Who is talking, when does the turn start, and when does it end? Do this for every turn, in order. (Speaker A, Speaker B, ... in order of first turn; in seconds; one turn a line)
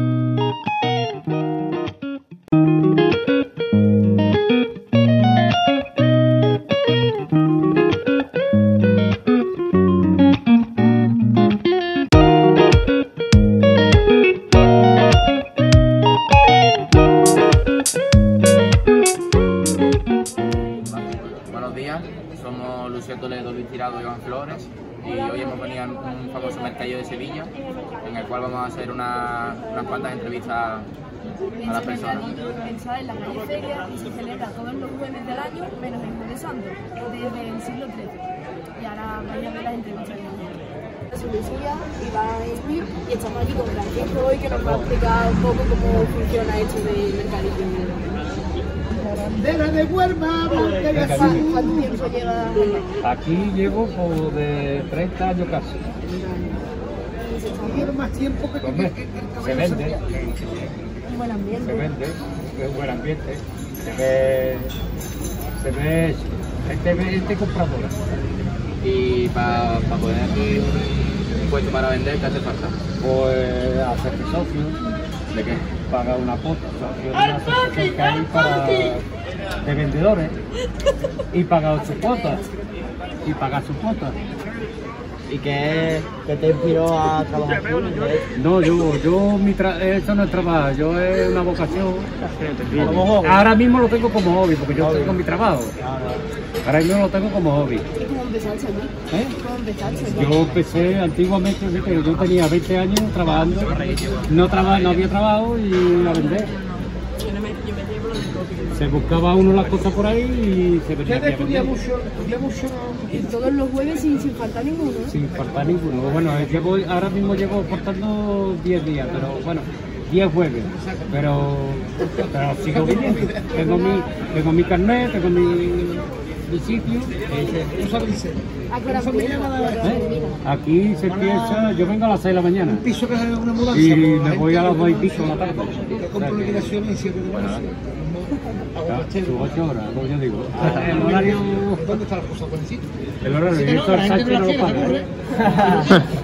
Speaker A: 20.8-30.9
Speaker B: 31.5-38.2
Speaker A: 31.6-32.4
Speaker B: 38.8-48.2
Speaker C: 44.5-45.0
Speaker D: 49.1-51.6
Speaker B: 50.7-52.9
Speaker C: 50.9-51.5
Speaker C: 53.0-55.9
Speaker B: 56.1-56.6
Speaker B: 57.2-58.0
Speaker D: 57.9-59.5
Speaker C: 58.6-60.1
Speaker B: 61.1-61.9
Speaker C: 61.6-64.8
Speaker C: 65.5-68.0
Speaker A: 68.8-72.8
Speaker C: 73.0-74.8
Speaker A: 75.3-75.7
Speaker C: 75.9-79.1
Speaker C: 79.6-80.4
Speaker C: 81.3-82.4
Speaker C: 83.2-84.2
Speaker E: 85.3-88.3
Speaker C: 88.4-95.7
Speaker E: 92.7-93.5
Speaker E: 94.8-95.2
Speaker E: 95.8-96.2
Speaker C: 96.6-97.9
Speaker B: 98.0-100.3
Speaker C: 100.1-106.5
Speaker A: 103.5-105.0
Speaker B: 107.1-108.5
Speaker C: 108.7-111.8
Speaker D: 111.6-113.1
Speaker B: 113.1-115.2
Speaker C: 115.1-127.3
Speaker D: 127.4-128.4
Speaker B: 128.7-130.4
Speaker D: 129.1-129.8
Speaker C: 129.8-132.9
Speaker D: 132.9-135.2
Speaker C: 133.6-136.8
Speaker D: 136.4-138.3
Speaker A: 137.3-137.7
Speaker C: 138.9-142.0
Speaker D: 141.9-142.8
Speaker C: 143.2-145.1
Speaker E: 145.3-146.0